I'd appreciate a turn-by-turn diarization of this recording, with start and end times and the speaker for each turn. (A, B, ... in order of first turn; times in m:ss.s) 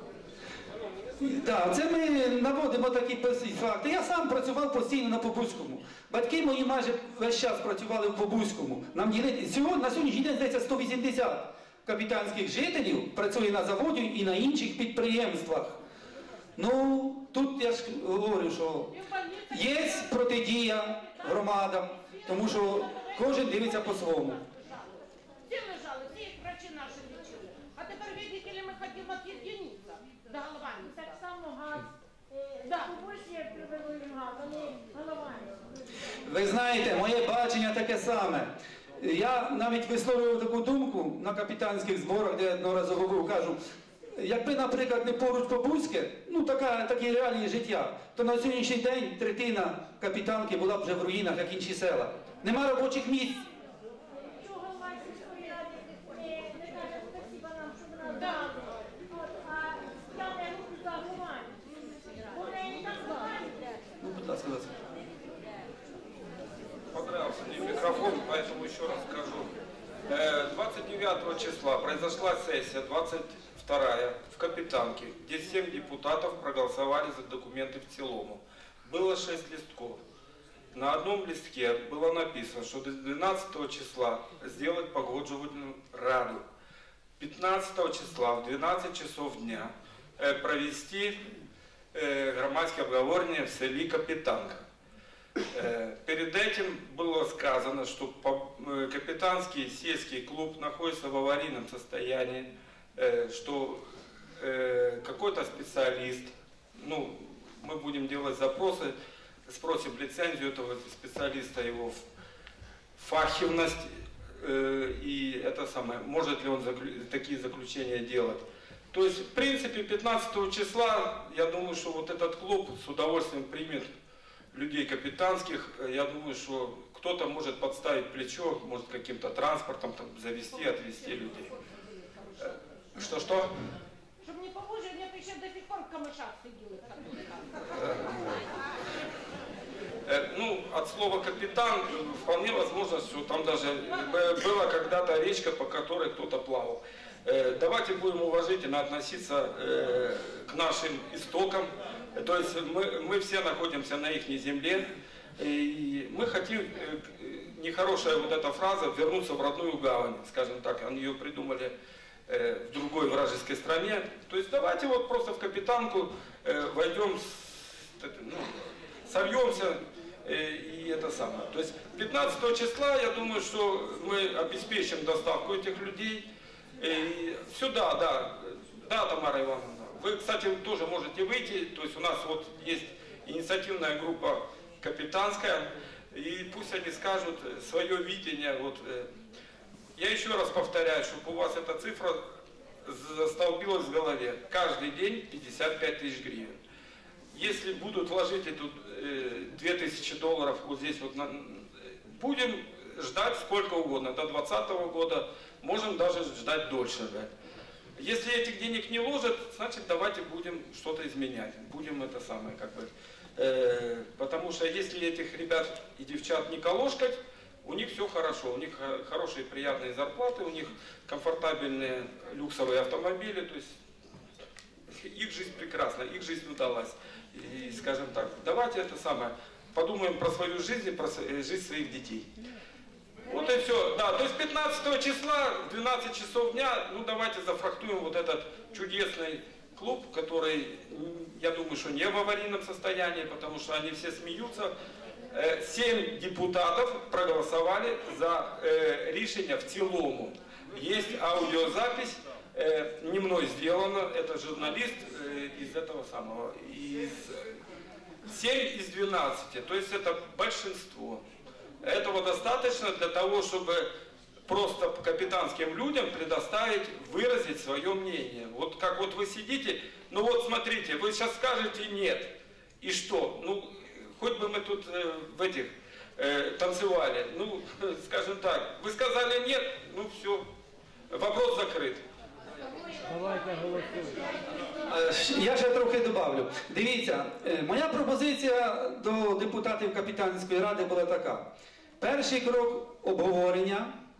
0:01.2-0:15.8 A
0:16.6-0:24.4 A
0:25.5-0:30.9 B
0:30.9-0:31.8 C
0:32.4-0:35.5 C
0:36.2-0:43.6 A
0:44.1-0:53.4 A
0:54.4-0:58.6 C
0:59.5-1:01.5 C
1:02.3-1:03.5 C
1:04.0-1:04.8 A
1:06.9-1:09.5 D
1:10.1-1:20.0 D
1:20.7-1:26.4 D
1:27.2-1:31.2 D
1:31.9-1:34.6 D
1:35.5-1:43.8 D
1:44.4-1:48.9 D
1:49.5-1:52.0 D
1:53.0-2:03.9 D
2:04.5-2:11.5 D
2:12.9-2:13.5 D
2:14.7-2:15.4 B
2:16.2-2:17.1 B
2:17.7-2:18.0 D
2:20.0-2:34.8 D
2:35.4-2:41.7 D
2:42.3-2:56.2 D
2:56.8-3:09.1 D
3:10.0-3:12.2 D
3:12.8-3:16.6 D
3:17.3-3:27.3 D
3:28.0-3:43.7 D
3:44.9-3:52.3 D
3:53.3-4:04.7 D
4:05.3-4:17.4 D
4:18.2-4:21.2 D
4:21.8-4:23.9 D
4:24.5-4:40.4 D
4:41.1-4:42.0 D
4:43.4-4:43.8 C
4:44.8-4:51.4 A
4:52.0-4:53.9 A